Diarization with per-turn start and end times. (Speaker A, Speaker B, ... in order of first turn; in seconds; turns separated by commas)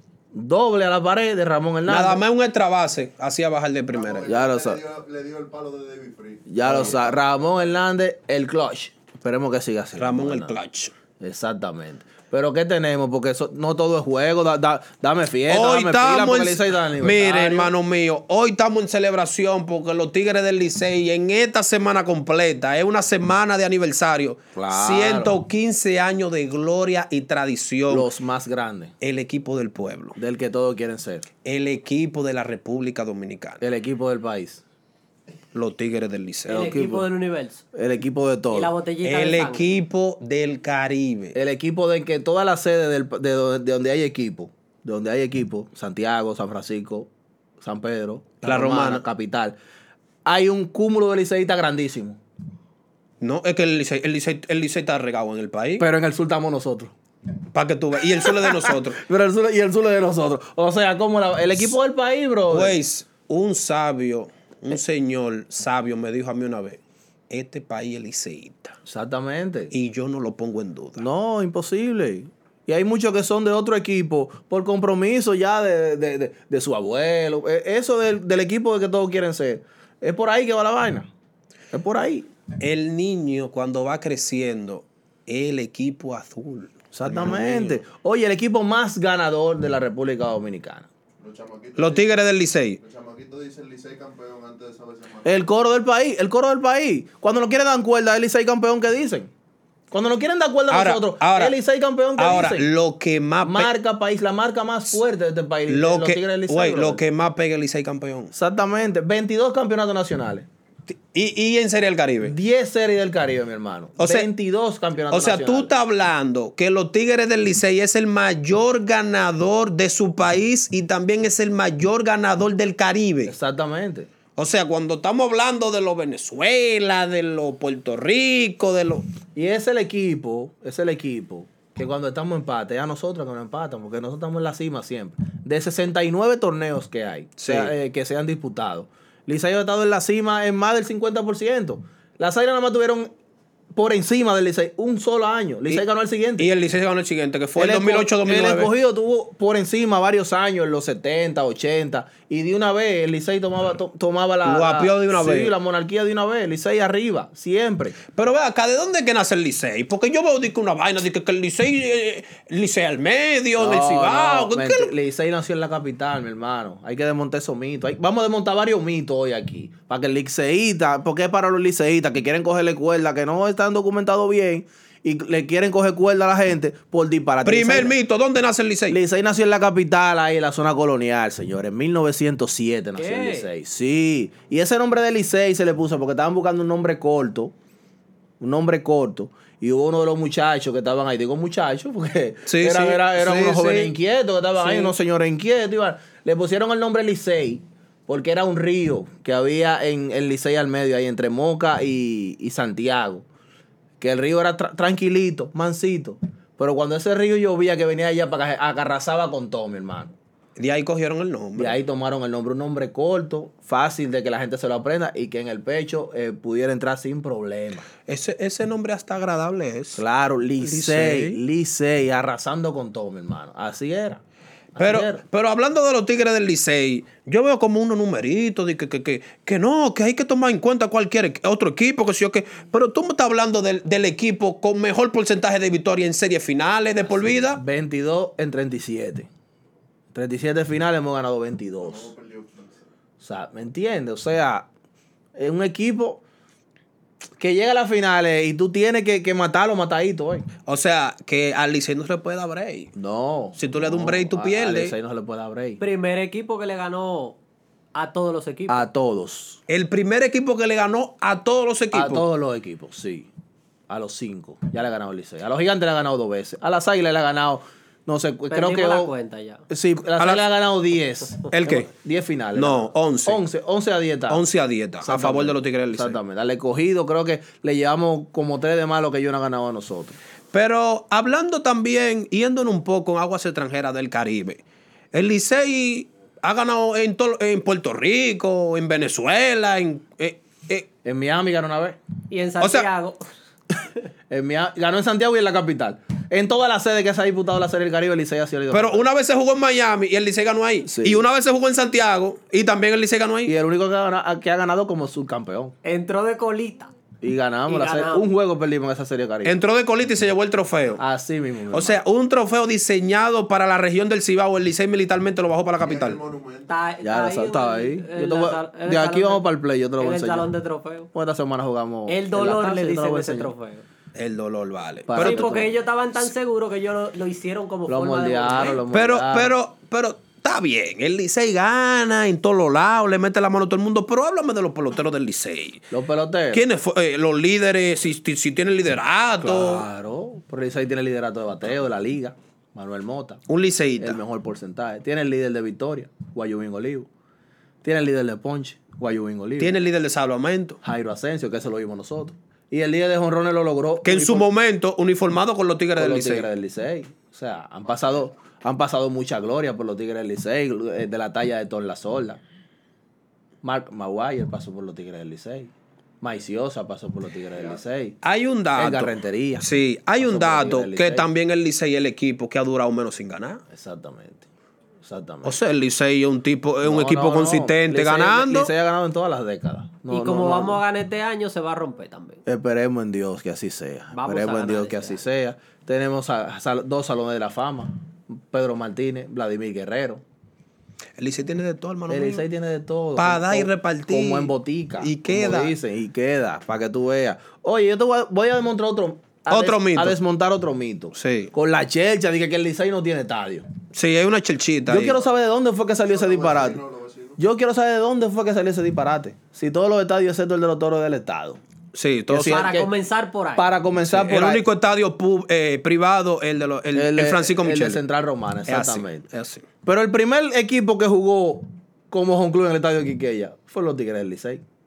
Speaker A: 0.3-2.2, Speaker B: 1.9-4.3, Speaker C: 3.9-7.6, Speaker A: 4.2-4.8, Speaker A: 6.5-10.6, Speaker B: 6.6-7.0, Speaker B: 10.0-10.9, Speaker A: 11.2-17.7, Speaker B: 15.5-28.1, Speaker A: 24.5-25.4, Speaker A: 27.9-28.9, Speaker B: 29.0-30.2, Speaker A: 30.1-31.3, Speaker B: 31.4-33.6, Speaker A: 33.6-34.6, Speaker B: 35.5-36.7, Speaker A: 36.5-37.1, Speaker D: 36.5-37.6, Speaker A: 37.7-38.7, Speaker D: 38.5-39.7, Speaker B: 39.0-41.4, Speaker A: 41.3-47.1, Speaker A: 47.6-49.5, Speaker B: 48.4-49.0, Speaker A: 50.2-52.2, Speaker B: 53.2-55.9, Speaker A: 55.8-56.9, Speaker B: 57.5-59.0, Speaker A: 58.2-62.8, Speaker B: 62.5-68.8, Speaker A: 68.8-69.7, Speaker B: 69.7-71.1, Speaker A: 71.0-81.1, Speaker A: 81.7-82.3, Speaker B: 82.6-87.8, Speaker A: 86.9-90.9, Speaker C: 91.2-92.1, Speaker B: 91.8-92.8, Speaker C: 92.8-95.5, Speaker A: 95.2-99.3, Speaker A: 99.9-102.7, Speaker B: 100.7-101.5, Speaker B: 102.2-103.7, Speaker A: 103.4-107.0, Speaker B: 105.7-108.3, Speaker A: 108.3-110.5, Speaker B: 110.9-112.3, Speaker A: 112.2-115.7, Speaker B: 114.0-114.3, Speaker B: 115.1-123.3, Speaker A: 123.2-124.1, Speaker B: 124.3-129.0, Speaker A: 129.3-143.1, Speaker B: 137.4-137.7, Speaker A: 143.7-146.5, Speaker B: 146.4-148.7, Speaker A: 147.6-158.0, Speaker B: 154.4-155.5, Speaker B: 158.1-164.9, Speaker A: 163.6-177.9, Speaker B: 177.4-179.0, Speaker A: 178.9-187.5, Speaker D: 183.0-183.5, Speaker A: 188.4-203.2, Speaker B: 192.4-193.9, Speaker D: 194.6-194.9, Speaker A: 204.0-210.1, Speaker B: 210.6-211.8, Speaker A: 211.5-217.9, Speaker B: 218.1-220.0, Speaker A: 219.9-224.2, Speaker B: 220.6-221.4, Speaker A: 224.7-225.2, Speaker B: 224.8-237.6, Speaker A: 237.1-239.3, Speaker A: 240.1-242.1, Speaker C: 241.8-242.8, Speaker A: 243.2-244.7, Speaker A: 245.3-246.2, Speaker A: 247.4-250.5, Speaker B: 250.7-252.9, Speaker A: 252.9-255.8, Speaker B: 253.6-254.9, Speaker D: 255.8-257.4, Speaker D: 257.9-258.9, Speaker A: 258.7-259.6, Speaker B: 259.7-262.2, Speaker A: 261.9-263.3, Speaker A: 263.9-269.1, Speaker D: 268.5-269.6, Speaker A: 269.7-274.4, Speaker B: 270.2-270.4, Speaker B: 271.5-271.9, Speaker B: 272.5-273.4, Speaker B: 274.3-276.2, Speaker A: 275.0-280.2, Speaker B: 280.5-284.6, Speaker B: 285.1-290.9, Speaker A: 291.0-292.0, Speaker D: 292.3-293.2, Speaker B: 292.6-292.9, Speaker A: 294.3-299.0, Speaker B: 298.7-303.5, Speaker A: 300.8-301.2, Speaker A: 303.4-305.7, Speaker D: 305.8-306.9, Speaker A: 307.2-309.6, Speaker D: 307.7-308.2, Speaker B: 309.4-311.0, Speaker A: 311.0-312.0, Speaker B: 311.7-316.2, Speaker C: 315.8-316.7, Speaker D: 316.7-321.1, Speaker A: 317.0-320.5, Speaker A: 321.1-323.5, Speaker D: 322.1-323.8, Speaker B: 324.1-325.6, Speaker A: 325.1-325.8, Speaker D: 325.2-328.8, Speaker A: 327.9-329.5, Speaker B: 328.9-335.9, Speaker A: 335.9-336.6, Speaker B: 336.5-339.9, Speaker A: 339.4-343.4, Speaker B: 343.5-344.2, Speaker A: 344.0-347.1, Speaker A: 347.8-349.8, Speaker B: 349.6-350.8, Speaker A: 350.8-354.5, Speaker B: 354.0-356.5, Speaker A: 356.0-362.4, Speaker A: 363.6-365.7, Speaker A: 366.2-368.2, Speaker B: 368.2-373.6, Speaker A: 368.8-369.7, Speaker A: 370.2-371.3, Speaker A: 373.7-374.4, Speaker A: 375.0-375.6, Speaker B: 375.4-378.7, Speaker A: 376.8-380.8, Speaker D: 380.1-382.4, Speaker A: 382.4-390.2, Speaker D: 384.1-385.2, Speaker B: 391.2-392.4, Speaker A: 392.1-403.7, Speaker B: 393.1-395.7, Speaker B: 399.5-400.2, Speaker B: 401.1-401.5, Speaker B: 403.9-405.2, Speaker A: 404.9-406.8, Speaker C: 406.0-407.4, Speaker A: 407.4-411.6, Speaker B: 411.9-412.7, Speaker A: 412.3-412.9, Speaker D: 412.4-413.7, Speaker A: 413.5-414.6, Speaker B: 414.1-418.0, Speaker A: 416.9-419.2, Speaker B: 418.7-419.6, Speaker A: 419.8-424.6